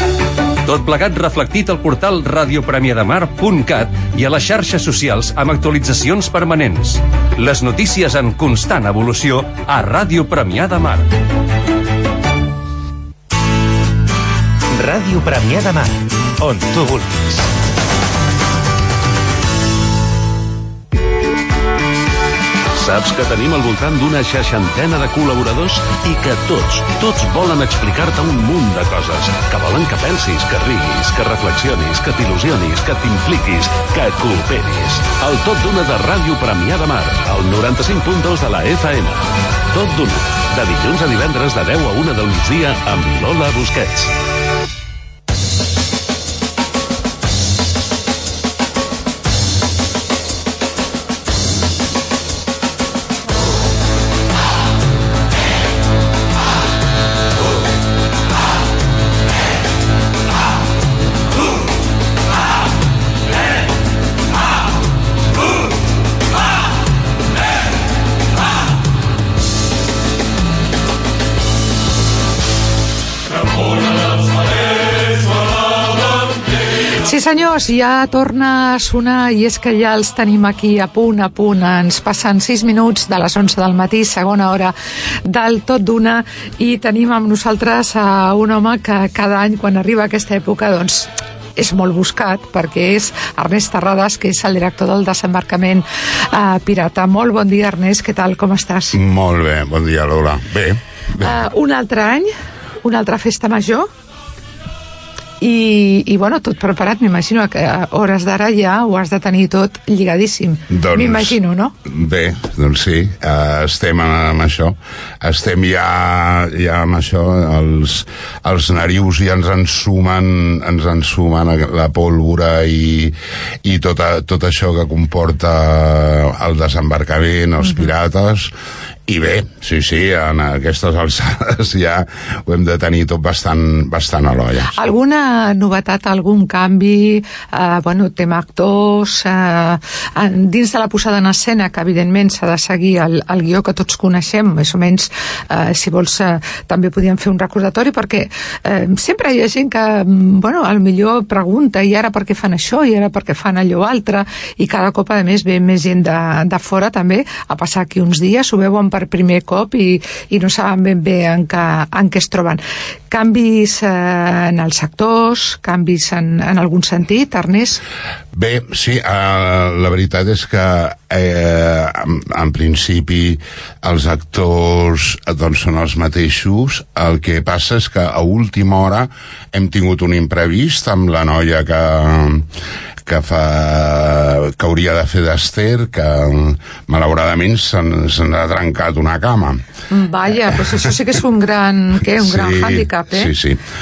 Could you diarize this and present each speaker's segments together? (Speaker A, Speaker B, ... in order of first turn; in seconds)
Speaker A: 0.6-11.0, 34.8-35.1
Speaker B: 14.7-17.5
Speaker C: 22.8-27.8, 28.4-32.3, 33.0-33.5, 37.5-39.1, 39.8-43.5
Speaker D: 77.0-99.0, 101.2-102.3, 102.8-103.9, 105.4-111.7, 134.7-167.8, 189.9-193.3
Speaker E: 98.9-101.4, 110.7-128.5, 129.1-134.8, 168.3-182.5, 183.0-189.6, 190.4-190.9, 192.1-193.6